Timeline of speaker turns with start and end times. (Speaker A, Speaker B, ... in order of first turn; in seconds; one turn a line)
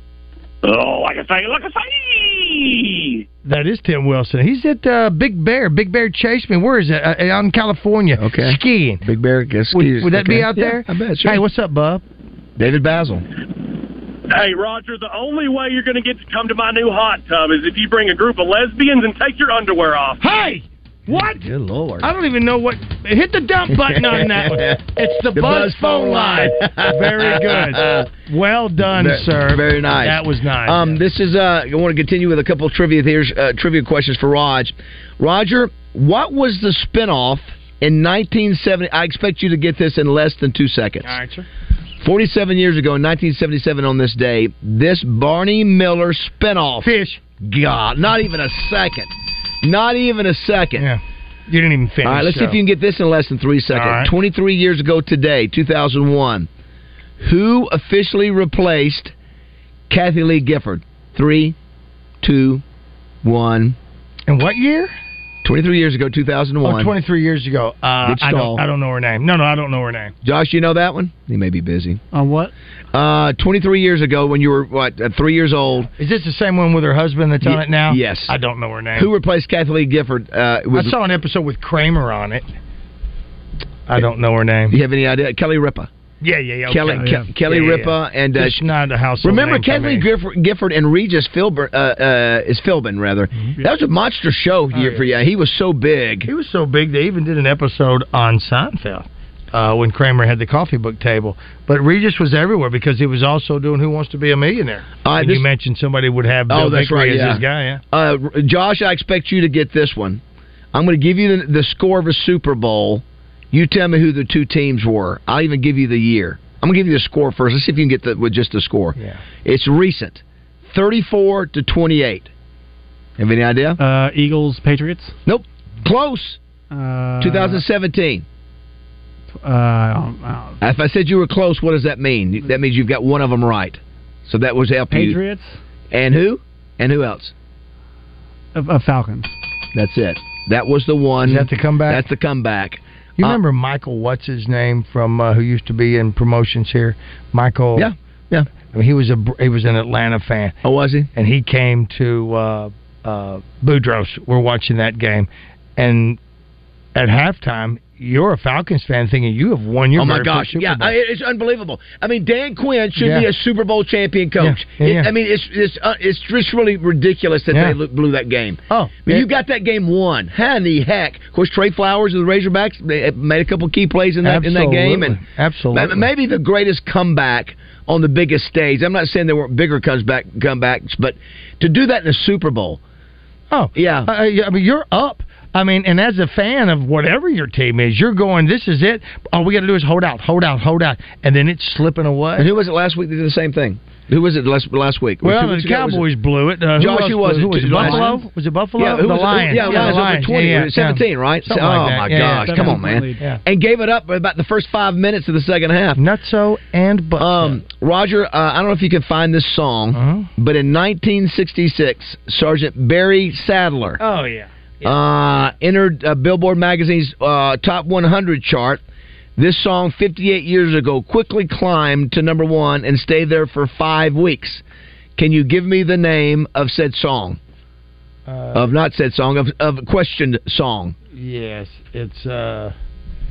Speaker A: 0.7-3.1
Speaker B: 3.5-9.0
Speaker C: 8.2-11.4
Speaker B: 9.7-12.0
Speaker C: 12.6-13.2
Speaker D: 14.3-20.2
Speaker B: 20.2-21.4
Speaker C: 21.1-22.1
Speaker B: 22.0-31.0
Speaker C: 23.7-24.8
Speaker C: 25.3-28.1
Speaker C: 28.8-41.2
Speaker B: 41.0-41.5
Speaker C: 42.0-46.9
Speaker B: 46.8-47.2
Speaker C: 47.4-49.1
Speaker C: 49.6-50.9
Speaker B: 50.8-52.6
Speaker C: 52.0-56.5
Speaker B: 53.7-54.1
Speaker C: 57.2-59.1
Speaker C: 59.9-61.6
Speaker C: 62.2-62.6
Speaker C: 63.2-63.8
Speaker B: 64.3-64.9
Speaker C: 65.4-66.9
Speaker B: 66.6-70.1
Speaker C: 68.0-68.6
Speaker C: 70.2-72.0
Speaker E: 72.1-72.5
Speaker C: 72.9-75.9
Speaker B: 76.0-79.1
Speaker C: 77.4-78.3
Speaker C: 79.0-81.0
Speaker B: 80.7-82.5
Speaker B: 83.9-84.8
Speaker C: 84.7-85.9
Speaker B: 86.2-90.1
Speaker C: 86.7-88.6
Speaker E: 86.9-87.3
Speaker C: 89.2-96.3
Speaker B: 94.7-95.0
Speaker B: 96.3-107.8
Speaker C: 105.0-105.5
Speaker C: 106.5-110.2
Speaker C: 110.7-122.3
Speaker C: 123.2-123.8
Speaker E: 123.8-125.2
Speaker C: 125.3-126.4
Speaker E: 126.7-127.7
Speaker C: 127.2-128.2
Speaker E: 129.3-130.6
Speaker C: 130.6-135.2
Speaker E: 134.9-135.6
Speaker C: 135.9-137.3
Speaker E: 138.6-139.3
Speaker C: 139.7-143.4
Speaker B: 141.2-142.0
Speaker B: 143.2-147.9
Speaker C: 147.8-148.5
Speaker B: 148.7-150.6
Speaker C: 150.6-151.1
Speaker B: 151.2-156.2
Speaker B: 156.9-160.9
Speaker C: 160.0-175.2
Speaker B: 163.0-163.3
Speaker B: 164.4-165.1
Speaker B: 168.7-169.3
Speaker B: 174.2-176.1
Speaker C: 175.7-182.8
Speaker B: 183.5-192.5
Speaker C: 183.8-184.1
Speaker C: 192.4-196.1
Speaker B: 195.2-203.4
Speaker C: 196.8-198.2
Speaker E: 197.7-198.2
Speaker C: 198.8-206.0
Speaker E: 199.6-200.0
Speaker E: 202.2-203.2
Speaker B: 206.0-207.6
Speaker C: 207.2-214.0
Speaker B: 209.9-210.3
Speaker B: 214.0-214.9
Speaker C: 214.8-218.8
Speaker C: 219.4-224.6
Speaker C: 225.2-227.4
Speaker B: 228.3-228.7
Speaker C: 228.5-230.9
Speaker B: 231.2-232.7